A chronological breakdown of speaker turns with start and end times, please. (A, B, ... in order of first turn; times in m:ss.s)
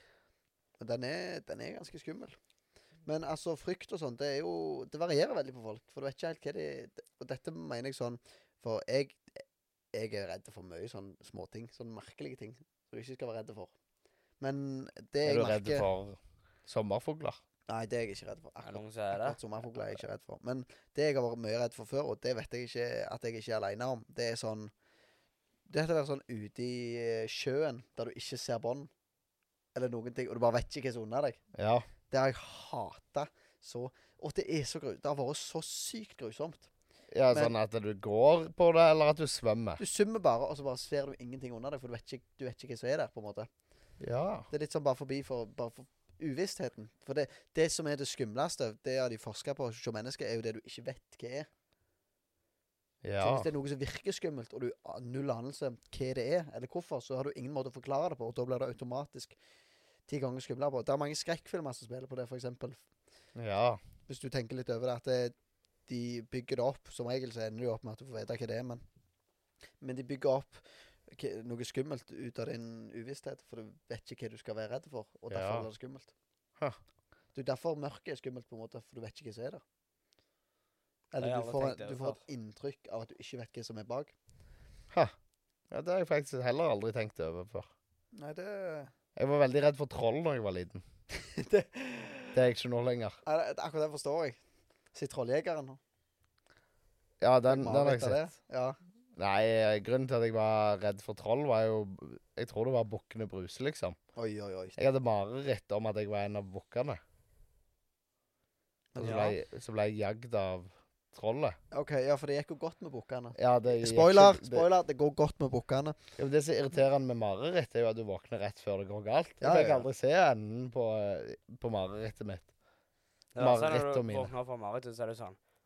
0:00.8-0:02.4 A
0:03.0-0:09.4 A
0:09.9-0:13.7 A
0:14.4-0:15.8 A
0:15.2-0:17.4 B
0:17.7-0:24.7 A
0:18.6-0:19.4 C
0:25.7-0:28.9 A
0:29.7-0:31.4 A
0:31.5-0:31.9 B
0:32.1-0:36.7 A
0:37.1-0:39.8 B
0:39.8-0:43.5 A
0:44.0-0:44.5 B
0:44.5-0:51.5 A
0:53.0-0:53.5 B
0:53.2-0:59.4 A
1:00.1-1:02.8 A
1:03.4-1:03.8 B
1:04.1-1:05.3 A
1:05.9-1:08.8 A
1:09.8-1:16.1 A
1:15.3-1:15.7 B
1:17.3-1:19.6 A
1:21.1-1:24.1 A
1:21.2-1:22.2 C
1:25.7-1:27.7 B
1:28.1-1:28.9 A
1:29.2-1:30.8 B
1:31.2-1:32.4 A
1:32.3-1:33.2 B
1:33.2-1:34.4 A
1:34.9-1:35.8 A
1:37.2-1:38.2 B
1:37.5-1:38.8 A
1:39.2-1:44.0 B
1:44.2-1:44.8 A
1:44.8-1:47.0 B
1:48.9-1:49.4 A
1:49.0-1:51.6 B
1:51.7-1:56.0 A
1:53.4-1:54.7 B
1:56.2-2:02.5 B
1:59.4-1:59.9 A
2:03.3-2:05.4 C
2:03.4-2:04.3 B